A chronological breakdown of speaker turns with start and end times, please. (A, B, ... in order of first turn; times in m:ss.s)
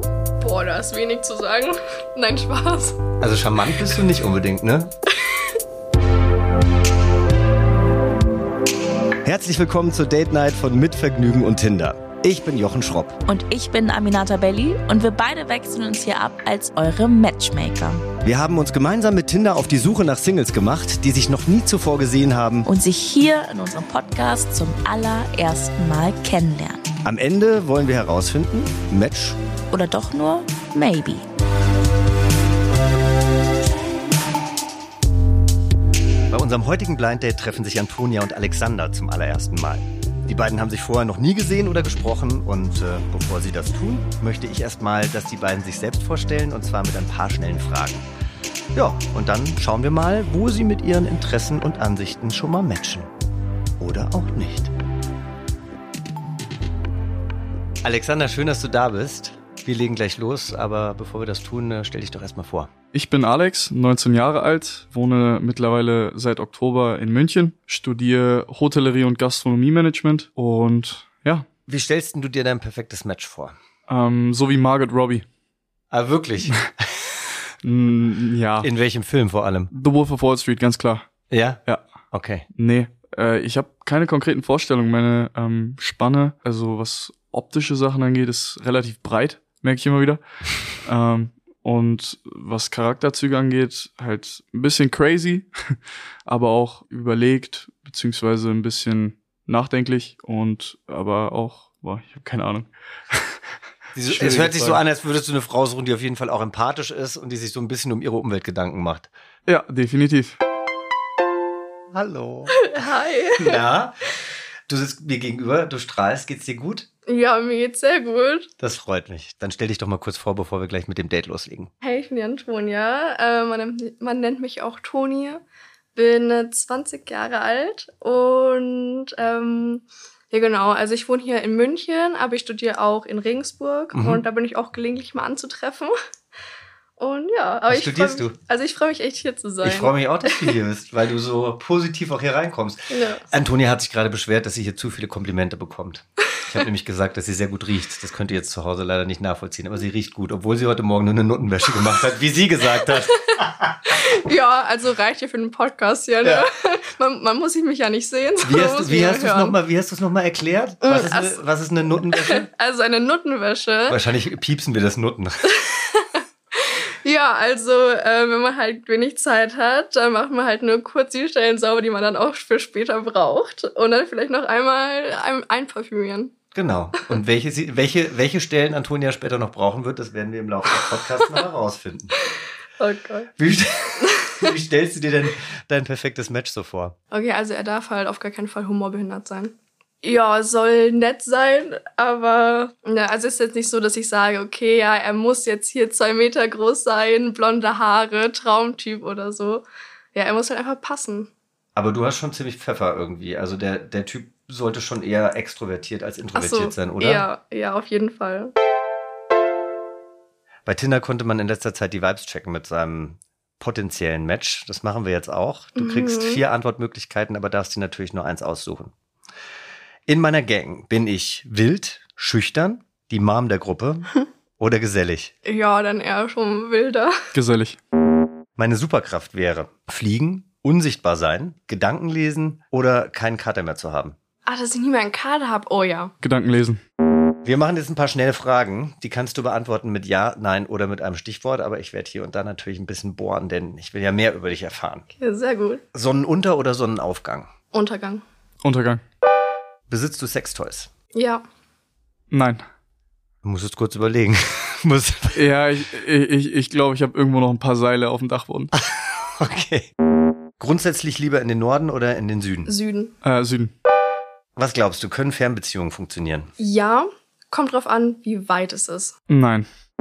0:00.4-0:03.0 A
0:03.2-0:04.9 B
0:05.3-0:05.5 A
0:09.2-0:13.2 B
0:13.2-0:18.1 C
0:18.2-0:22.7 B
0:22.6-0:26.9 C
0:27.0-0:29.4 B
0:29.7-0:31.2 C
0:36.3-0:48.1 B
0:48.7-0:53.1 B
0:53.8-0:54.7 B
0:57.8-1:02.7 B
1:02.9-1:11.4 D
1:11.7-1:13.6 B
1:13.9-1:15.2 D
1:15.9-1:17.2 B
1:17.6-1:18.7 D
1:18.6-1:19.7 B
1:19.7-1:21.1 D
1:21.3-1:21.6 B
1:22.1-1:22.4 B
1:22.6-1:30.2 D
1:30.8-1:43.4 D
1:44.0-1:49.1 B
1:44.0-1:44.8 D
1:49.4-1:50.4 D
1:51.9-1:52.6 B
1:52.5-1:53.6 A
1:53.4-1:54.0 B
1:54.7-1:56.9 B
1:57.1-1:58.5 A
1:58.6-2:01.7 B
2:01.8-2:05.4 A
2:06.0-2:15.9 A
2:13.9-2:14.2 B
2:17.0-2:20.6 A
2:17.7-2:18.4 B
2:19.6-2:34.0 B
2:22.9-2:23.2 A
2:33.9-2:39.6 A
2:38.4-2:42.5 B
2:40.8-2:41.4 A
2:42.1-2:44.0 A
2:43.9-2:45.4 B
2:45.5-2:56.3 A
2:56.5-3:02.1 B
3:02.8-3:03.3 A
3:03.4-3:07.0 B
3:04.1-3:04.4 A
3:07.1-3:21.3 A
3:21.8-3:27.3 B
3:26.3-3:28.5 A
3:30.7-3:38.9 B
3:35.8-3:36.4 A
3:40.1-3:45.3 B
3:45.4-3:47.2 A
3:47.3-3:47.8 D
3:48.6-3:54.2 B
3:54.4-3:56.1 A
3:56.2-3:56.8 D
3:57.4-4:05.1 B
4:05.2-4:05.8 A
4:05.9-4:07.5 B
4:07.7-4:08.2 A
4:08.6-4:09.0 D
4:09.9-4:10.9 B
4:11.1-4:11.4 A
4:12.3-4:12.6 D
4:13.4-4:15.4 B
4:15.3-4:18.7 D
4:18.7-4:19.9 B
4:20.6-4:22.7 B
4:22.6-4:23.1 A
4:23.2-4:23.7 D
4:24.6-4:26.5 B
4:26.6-4:29.1 A
4:29.3-4:29.6 D